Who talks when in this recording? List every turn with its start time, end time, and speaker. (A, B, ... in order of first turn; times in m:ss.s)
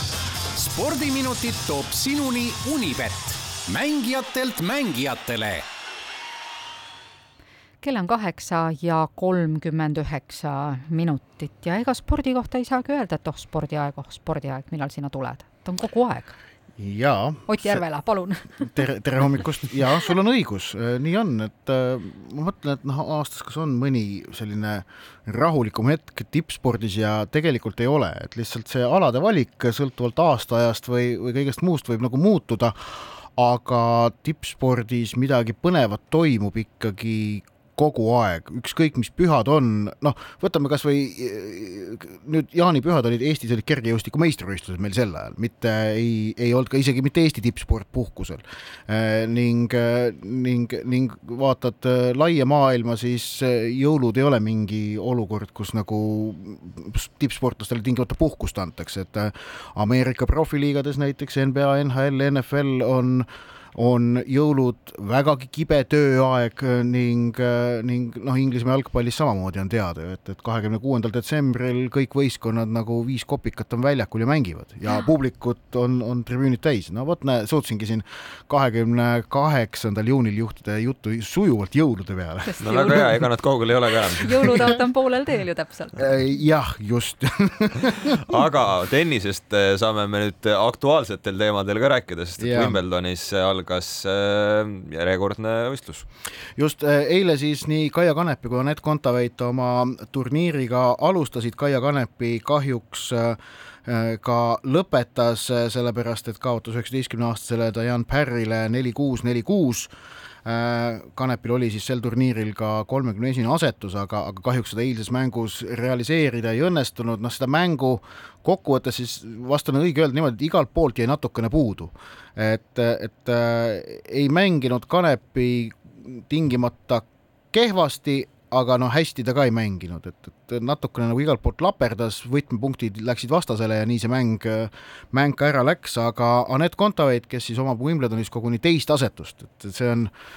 0:00.6-0:05.7 A
0:07.8-0:16.4 B
0:16.8-0:17.8 C
0:17.5-0:18.8 B
0:18.6-1:22.6 C
1:22.4-1:23.3 B
1:22.6-1:24.5 D
1:24.1-1:26.1 B
1:26.0-1:28.2 C
1:28.1-1:36.0 D
1:32.4-1:32.8 C
1:36.6-1:49.9 C
1:50.4-2:20.1 C